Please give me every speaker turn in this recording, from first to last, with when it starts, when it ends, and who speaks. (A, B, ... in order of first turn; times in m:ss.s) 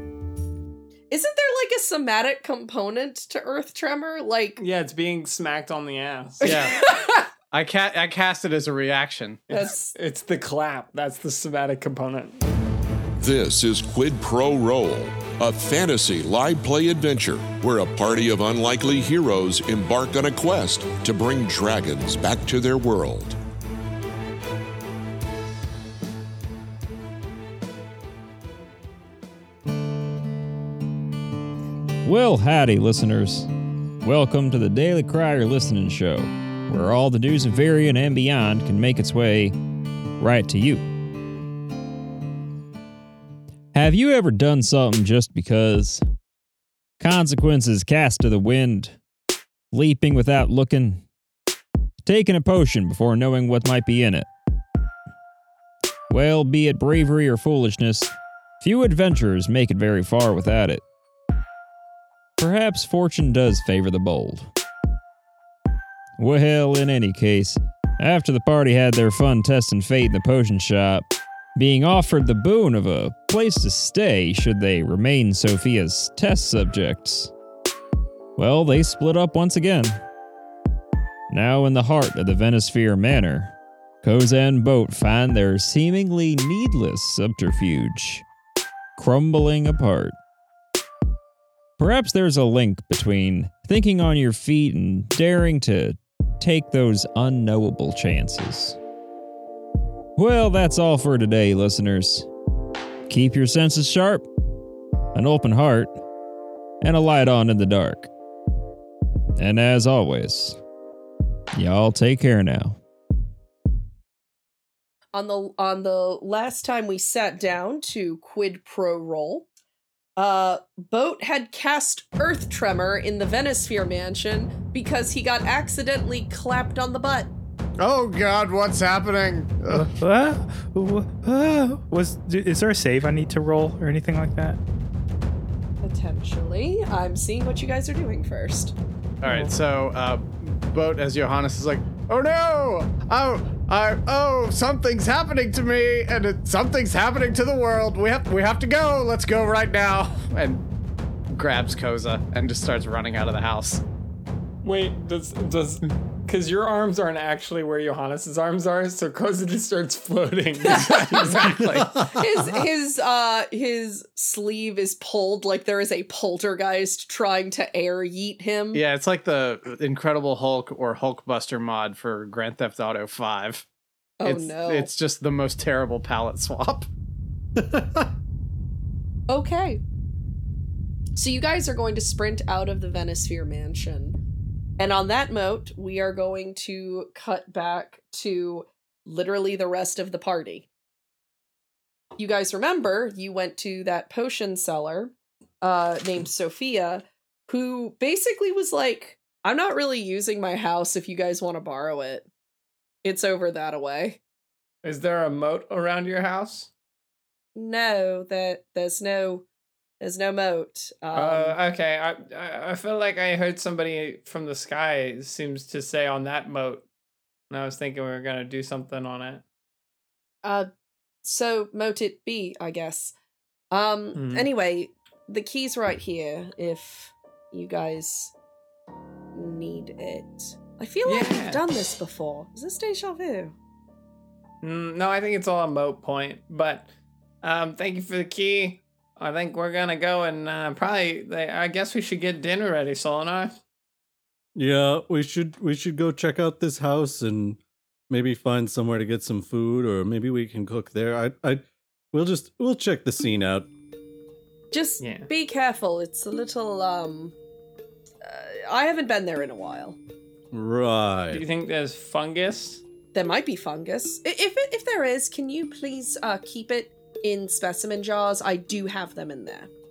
0:01.1-0:04.6 A
0:04.6-0:06.7 B
0:06.4-0:06.8 C
0:06.4-0:07.3 A
0:07.5-0:09.4 C
0:09.5-0:10.0 A
0:09.5-0:12.4 B
0:13.2-0:23.4 D
0:32.0-0:33.5 E
0:34.0-0:39.6 E
0:40.2-0:40.8 E
0:43.7-0:46.0 E
0:47.0-0:49.0 E
0:49.7-0:51.0 E
0:52.0-0:54.3 E
0:56.1-1:00.8 E
1:02.4-1:04.5 E
1:06.2-1:17.3 E
1:18.4-1:20.0 E
1:21.3-1:28.2 E
1:29.0-1:30.2 E
1:31.8-1:38.8 E
1:40.2-1:42.3 E
1:43.1-1:44.3 E
1:45.1-1:46.0 E
1:46.8-1:48.1 E
1:49.4-1:50.6 E
1:51.6-1:52.8 E
1:55.1-1:59.5 A
2:00.2-2:07.3 A
2:07.8-2:09.9 C
2:09.7-2:14.6 F
2:15.8-2:18.8 A
2:19.2-2:30.7 C
2:31.3-2:33.8 C
2:34.6-2:41.9 B
2:40.6-2:48.8 A
2:41.6-2:42.6 G
2:48.7-2:53.7 C
2:54.2-2:54.9 A
2:54.2-2:56.9 C
2:57.6-2:58.1 G
2:59.3-2:59.8 A
3:01.2-3:04.2 A
3:04.8-3:10.7 A
3:12.2-3:22.3 A
3:23.0-3:24.2 A
3:24.8-3:26.7 B
3:27.6-3:29.5 A
3:30.0-3:31.6 A
3:31.2-3:36.9 B
3:37.5-3:39.4 B
3:40.4-3:40.7 A
3:41.2-3:43.1 A
3:43.7-3:48.3 A
3:44.2-3:44.5 B
3:49.3-3:53.6 A
3:51.0-3:51.6 B
3:54.6-3:56.9 B
3:57.4-4:03.6 B
4:04.6-4:07.6 G
4:08.1-4:13.7 G
4:14.7-4:17.3 A
4:15.0-4:15.3 B
4:18.2-4:20.0 A
4:20.5-4:21.4 G
4:21.3-4:22.8 B
4:23.1-4:29.7 A